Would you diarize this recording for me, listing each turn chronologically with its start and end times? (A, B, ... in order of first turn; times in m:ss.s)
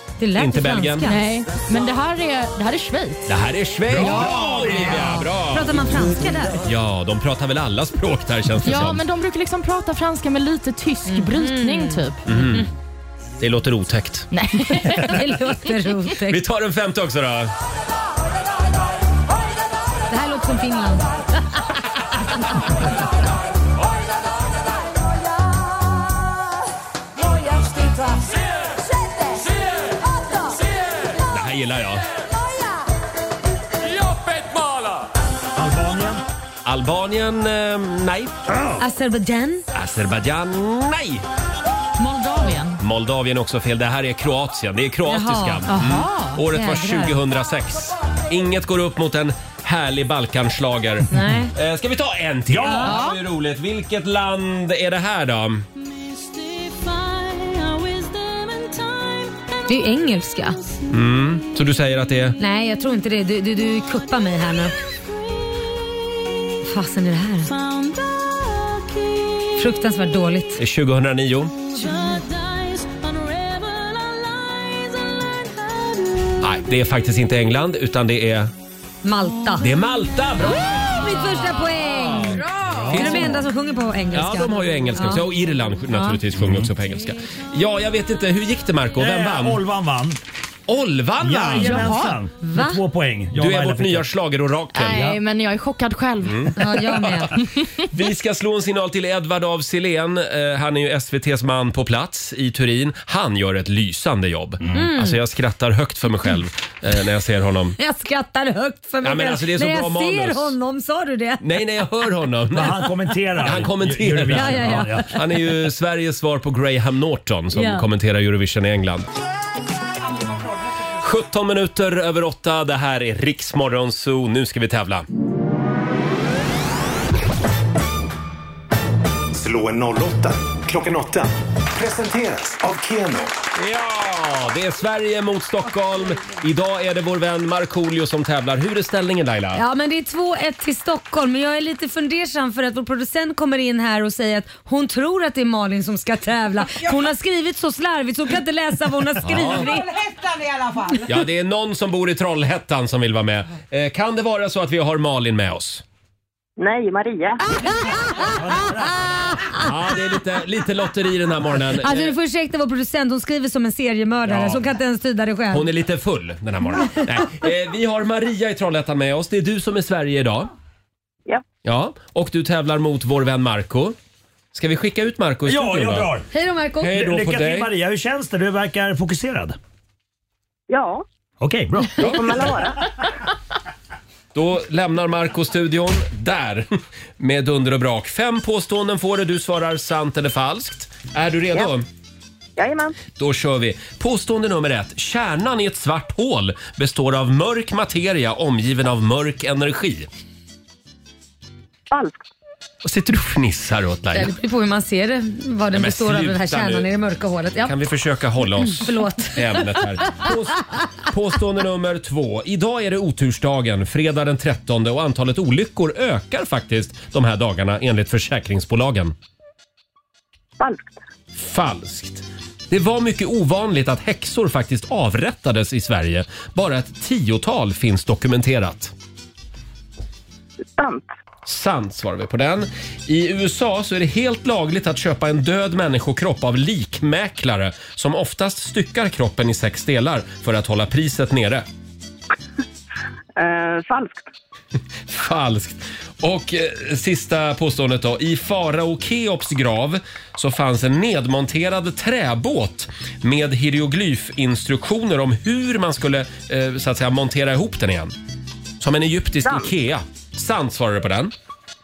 0:00.2-0:01.2 A
0:00.4-0:01.1 B
0:01.0-0:03.3 C
0:03.3-0:05.9 B
0:03.9-0:05.2 D
0:04.0-0:04.3 C
0:04.7-0:06.6 A
0:06.6-0:09.0 B
0:08.6-0:12.2 C
0:11.1-0:12.7 A
0:12.3-0:12.7 B
0:13.4-0:14.3 B
0:14.3-0:15.3 C
0:14.8-0:16.4 A
0:16.3-0:17.5 B
0:20.1-0:21.6 A
0:27.4-0:28.3 E
0:29.1-0:29.5 E
0:31.3-0:32.1 B
0:35.6-0:36.2 D
0:36.6-0:38.3 B
0:38.5-0:38.8 D
0:38.8-0:39.6 A
0:39.7-0:41.2 B
0:42.0-0:42.8 C
0:42.8-0:55.6 B
0:45.1-0:45.7 A
0:45.7-0:46.4 C
0:46.5-0:47.2 A
0:51.1-0:51.5 A
0:52.5-0:53.0 D
0:52.8-0:53.2 C
0:55.9-0:59.6 E
0:59.7-1:00.6 A
1:00.9-1:02.4 B
1:02.4-1:04.7 A
1:05.7-1:06.6 E
1:06.6-1:07.5 A
1:07.4-1:09.6 E
1:09.6-1:10.6 A
1:10.6-1:11.6 B
1:11.7-1:16.3 E
1:16.4-1:18.5 B
1:19.0-1:19.7 A
1:19.6-1:20.9 B
1:20.8-1:25.3 A
1:22.7-1:23.3 D
1:22.9-1:23.4 B
1:24.1-1:29.6 B
1:25.9-1:26.2 A
1:26.4-1:26.7 D
1:29.0-1:30.2 D
1:30.7-1:32.0 B
1:31.2-1:34.1 D
1:31.6-1:32.2 C
1:32.4-1:32.8 A
1:33.3-1:35.1 B
1:34.7-1:36.6 C
1:34.9-1:35.2 D
1:36.2-1:47.8 B
1:36.6-1:37.4 A
1:44.6-1:44.9 D
1:44.7-1:45.2 A
1:47.8-1:51.4 A
1:49.0-1:50.6 B
1:51.4-1:52.9 B
1:52.5-1:55.2 D
1:53.4-1:59.1 B
1:54.3-1:55.2 A
1:57.5-1:57.8 A
2:01.0-2:05.1 B
2:09.3-2:13.3 F
2:13.6-2:19.6 B
2:19.5-2:30.0 A
2:29.2-2:29.7 B
2:30.0-2:31.0 E
2:31.1-2:35.8 B
2:36.6-2:37.5 G
2:37.6-2:39.7 A
2:38.1-2:39.4 D
2:39.6-2:42.1 B
2:41.8-2:45.7 A
2:44.3-2:44.6 B
2:45.5-2:50.5 B
2:51.6-2:54.0 B
2:54.5-2:56.1 B
2:55.4-2:56.3 D
2:56.3-2:56.9 A
2:56.8-2:57.7 B
2:56.9-2:59.6 D
3:00.7-3:01.0 G
3:01.4-3:02.7 D
3:02.0-3:03.0 G
3:02.0-3:02.4 B
3:04.3-3:11.9 B
3:12.6-3:13.0 G
3:13.2-3:20.1 B
3:21.9-3:22.2 G
3:22.8-3:24.3 B
3:24.1-3:27.8 A
3:25.7-3:26.9 B
3:27.6-3:39.1 B
3:28.4-3:29.8 A
3:40.6-3:40.9 G
3:41.4-3:48.9 B
3:50.8-3:51.1 G
3:51.4-4:01.7 B
4:03.4-4:04.3 G
4:05.1-4:18.1 B
4:18.8-4:21.3 B